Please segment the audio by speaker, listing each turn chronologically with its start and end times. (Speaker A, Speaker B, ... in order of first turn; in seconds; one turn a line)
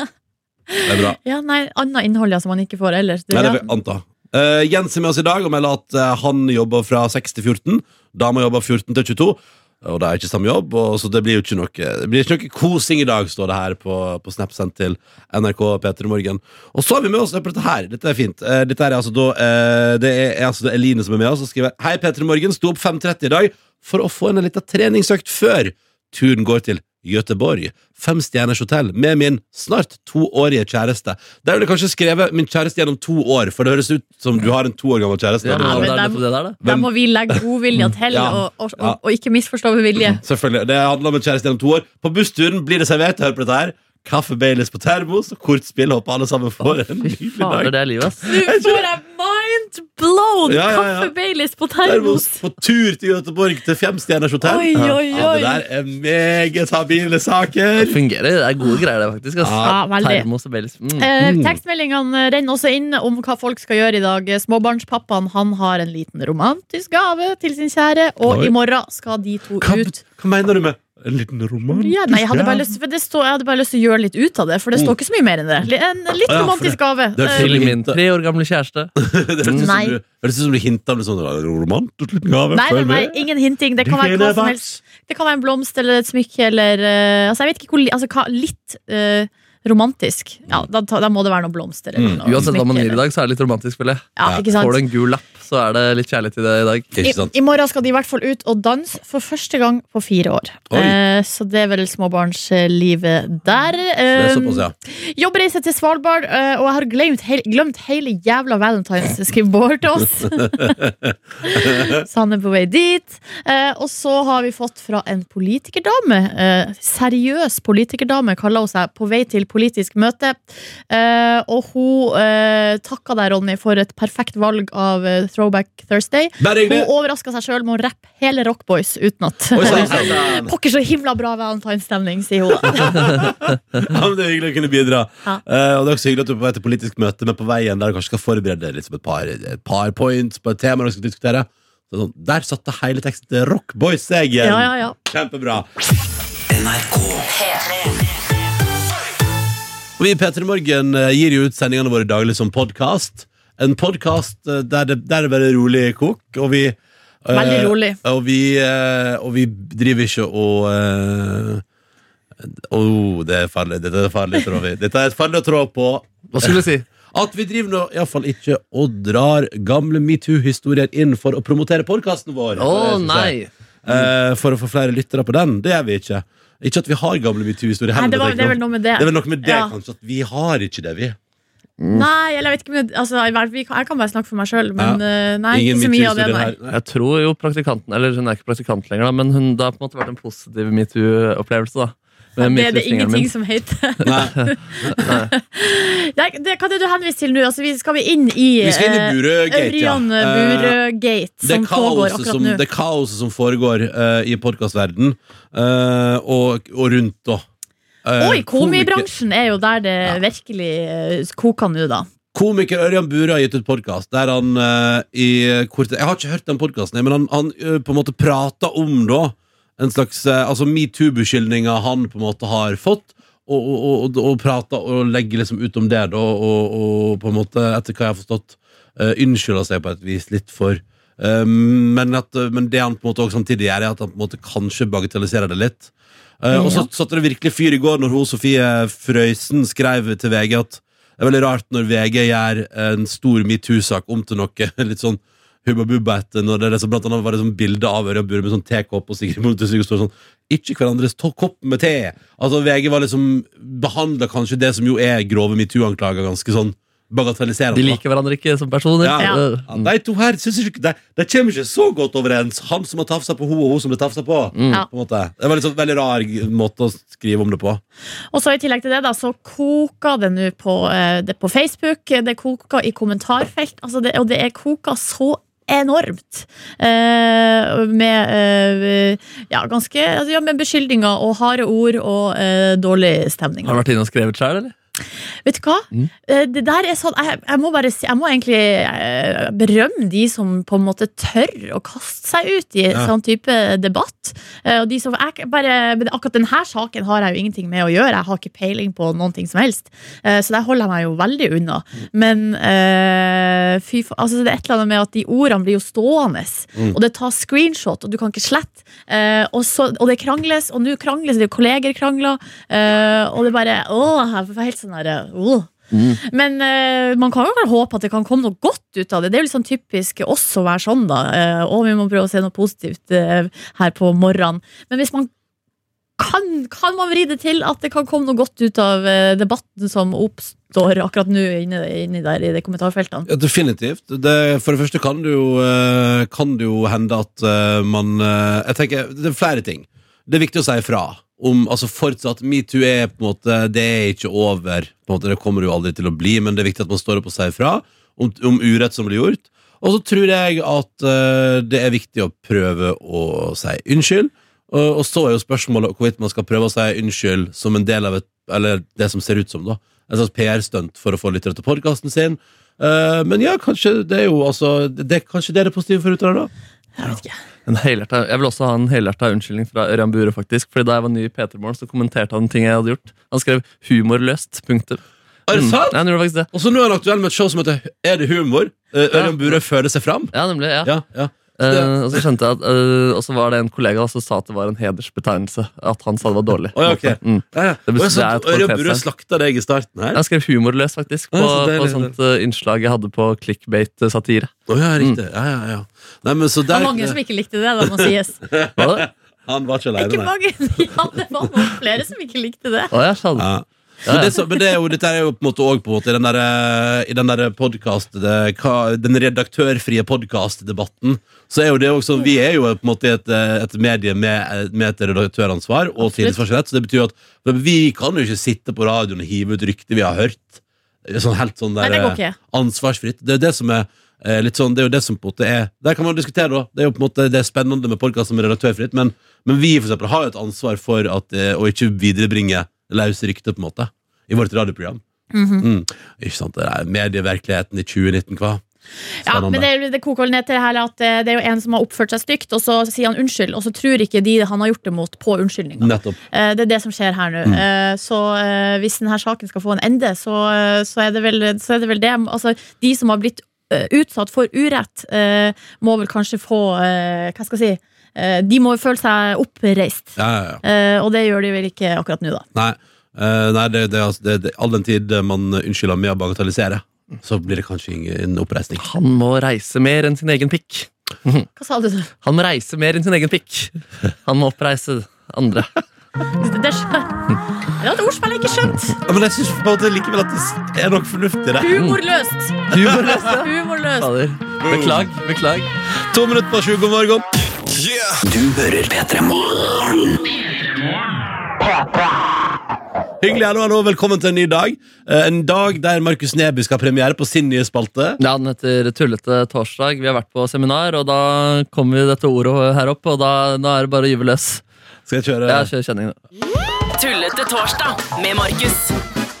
Speaker A: 0.7-3.6
Speaker B: 0.8-1.2
Speaker B: 3.3-36.0
Speaker C: 35.4-36.6
Speaker A: 35.5-40.2
Speaker B: 36.6-37.4
Speaker B: 38.1-39.0
Speaker B: 40.0-47.7
Speaker C: 47.1-48.4
Speaker A: 48.2-52.4
Speaker B: 48.4-48.8
Speaker B: 50.5-51.1
Speaker B: 51.8-58.0
Speaker A: 54.4-55.6
Speaker C: 54.7-55.0
Speaker C: 57.8-61.1
Speaker B: 59.4-59.8
Speaker A: 59.6-60.3
Speaker A: 61.0-70.0
Speaker B: 61.2-61.6
Speaker B: 68.2-68.5
Speaker B: 69.6-72.7
Speaker A: 71.7-77.6
Speaker B: 76.3-78.0
Speaker C: 77.3-79.7
Speaker B: 79.0-83.2
Speaker A: 79.6-80.0
Speaker A: 82.5-93.0
Speaker B: 83.8-84.8
Speaker B: 92.0-92.5
Speaker C: 92.2-96.9
Speaker A: 94.2-94.8
Speaker B: 96.9-97.3
Speaker A: 97.0-110.8
Speaker B: 100.7-101.0
Speaker B: 104.1-104.7
Speaker B: 110.5-112.0
Speaker A: 111.4-120.4
Speaker A: 120.9-133.1
Speaker B: 126.4-126.9
Speaker B: 129.5-130.5
Speaker B: 132.6-145.7
Speaker A: 144.4-144.9
Speaker D: 146.5-147.5
Speaker B: 150.0-161.6
Speaker A: 157.3-158.0
Speaker B: 162.4-181.2
Speaker C: 166.3-166.8
Speaker C: 172.6-174.1
Speaker A: 177.9-179.7
Speaker C: 181.8-182.1
Speaker A: 181.9-186.5
Speaker B: 184.8-186.8
Speaker C: 186.7-193.3
Speaker A: 192.4-202.6
Speaker B: 194.0-195.1
Speaker C: 194.9-195.3
Speaker B: 198.6-200.8
Speaker B: 201.4-207.4
Speaker B: 208.0-209.1
Speaker A: 208.2-212.1
Speaker B: 212.3-258.0
Speaker A: 236.5-236.9
Speaker C: 257.7-259.9
Speaker B: 259.0-267.8
Speaker C: 264.5-264.8
Speaker A: 268.3-283.8
Speaker C: 283.6-284.7
Speaker A: 285.4-315.7
Speaker C: 315.9-316.2
Speaker A: 316.2-325.3
Speaker A: 326.2-333.3
Speaker B: 333.2-366.5
Speaker A: 367.0-367.3
Speaker C: 367.6-375.0
Speaker B: 375.5-376.0
Speaker C: 375.5-376.5
Speaker B: 376.5-382.2
Speaker C: 379.1-379.6
Speaker C: 380.3-380.9
Speaker C: 381.6-389.0
Speaker B: 386.7-390.2
Speaker C: 390.1-395.2
Speaker B: 391.3-392.1
Speaker B: 394.7-397.2
Speaker A: 396.7-398.4
Speaker B: 397.8-400.3
Speaker C: 398.8-399.1
Speaker A: 400.0-402.9
Speaker C: 402.9-403.5
Speaker B: 403.4-435.0
Speaker C: 404.1-404.3
Speaker A: 416.0-416.4
Speaker A: 421.8-422.4
Speaker A: 435.3-435.6
Speaker B: 435.6-438.6
Speaker A: 439.2-462.4
Speaker B: 439.2-439.7
Speaker B: 445.8-446.2
Speaker B: 460.2-460.6
Speaker B: 462.5-468.9
Speaker C: 468.8-471.5
Speaker A: 471.6-472.1
Speaker C: 472.2-473.7
Speaker C: 474.2-475.8
Speaker A: 476.4-479.0
Speaker B: 479.1-481.8
Speaker A: 481.6-484.1
Speaker C: 481.7-482.0
Speaker C: 482.7-485.7
Speaker B: 482.8-483.2
Speaker B: 484.6-485.1
Speaker B: 486.1-487.2
Speaker D: 487.6-490.2
Speaker B: 493.2-498.2
Speaker C: 498.2-504.6
Speaker B: 505.1-505.7
Speaker C: 505.5-506.2
Speaker D: 506.9-508.9